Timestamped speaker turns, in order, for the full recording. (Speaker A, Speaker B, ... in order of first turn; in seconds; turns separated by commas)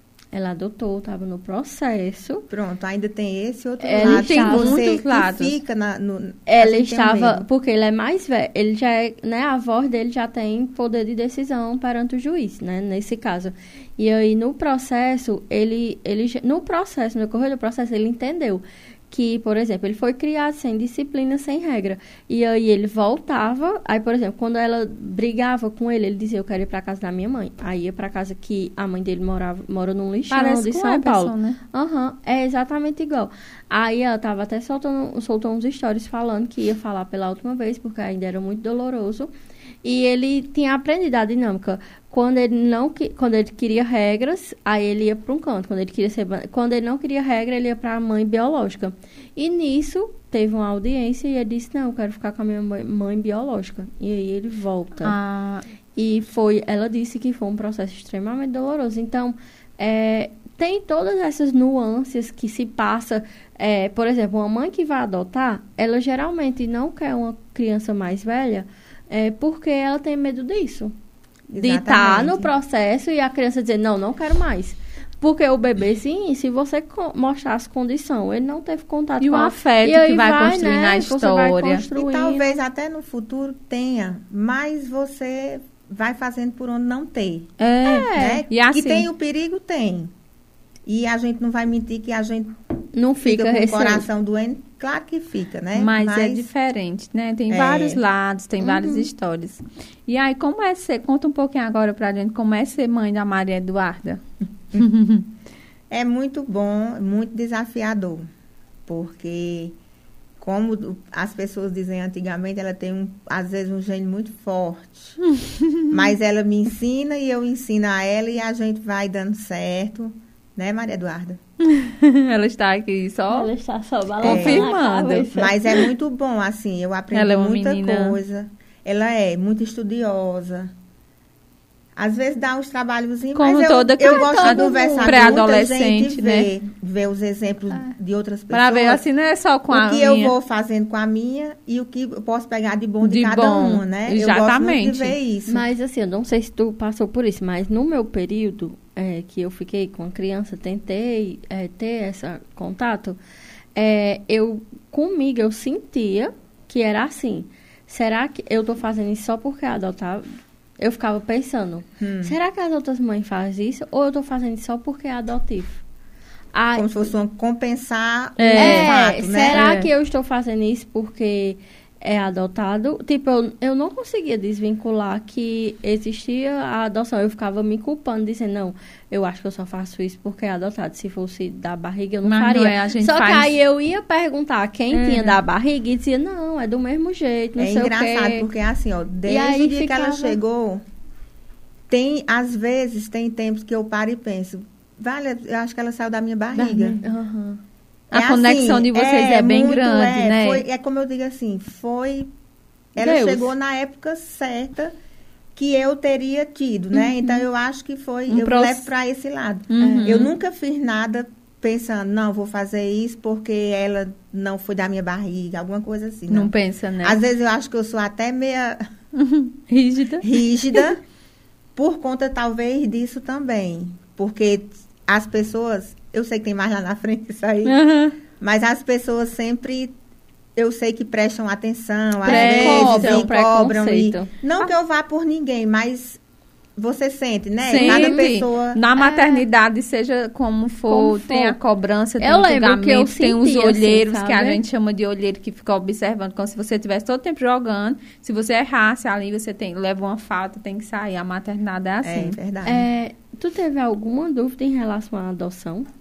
Speaker A: 0.3-2.5, Speaker B: 2.5-7.5, Speaker C: 3.9-5.5, Speaker A: 4.0-4.8, Speaker A: 6.5-39.3, Speaker C: 30.3-31.6, Speaker A: 39.8-55.1, Speaker C: 55.0-55.7, Speaker A: 56.0-71.0, Speaker B: 71.5-72.5, Speaker A: 71.6-82.6, Speaker C: 79.2-81.8, Speaker B: 81.9-87.5, Speaker C: 87.6-89.1, Speaker A: 87.8-88.4, Speaker B: 88.1-90.1, Speaker B: 90.9-92.6, Speaker A: 93.0-94.1, Speaker B: 93.2-96.5, Speaker C: 95.7-104.2, Speaker B: 97.5-98.0, Speaker A: 98.6-99.1, Speaker C: 104.8-105.3, Speaker B: 105.9-108.3, Speaker B: 108.9-109.8, Speaker B: 110.4-115.2, Speaker B: 115.9-121.4, Speaker C: 121.6-123.5, Speaker A: 123.3-125.8, Speaker C: 124.2-125.3, Speaker B: 124.2-124.7, Speaker B: 125.3-130.7, Speaker C: 127.1-128.2, Speaker B: 132.0-139.0, Speaker C: 133.3-136.5, Speaker A: 134.1-135.4, Speaker C: 138.5-140.3, Speaker B: 139.7-145.6, Speaker C: 143.0-145.2, Speaker A: 145.5-153.2, Speaker A: 153.8-165.8, Speaker B: 162.0-162.4, Speaker A: 166.5-167.1, Speaker B: 166.8-169.7, Speaker C: 168.4-168.9, Speaker A: 168.6-188.5, Speaker C: 169.5-169.9, Speaker C: 182.2-183.6, Speaker C: 184.9-185.4, Speaker B: 187.6-190.8, Speaker A: 189.3-190.4, Speaker B: 191.9-197.0, Speaker C: 196.5-197.0, Speaker A: 197.0-197.6, Speaker C: 198.1-200.6, Speaker B: 198.1-202.3, Speaker B: 202.9-204.9, Speaker A: 203.0-203.5, Speaker B: 205.6-218.8, Speaker C: 208.3-208.9, Speaker C: 209.7-210.3, Speaker A: 209.8-210.2, Speaker C: 216.3-217.2, Speaker C: 219.2-220.9, Speaker B: 220.2-221.0, Speaker B: 221.8-227.8, Speaker C: 227.7-228.2, Speaker B: 228.4-229.9, Speaker B: 230.6-236.2, Speaker C: 232.2-233.3, Speaker A: 232.2-234.3, Speaker B: 236.8-238.8, Speaker C: 237.7-252.4, Speaker A: 237.7-238.3, Speaker A: 239.0-239.4, Speaker A: 240.9-241.6, Speaker A: 242.2-244.6, Speaker B: 252.0-252.9, Speaker A: 252.6-255.9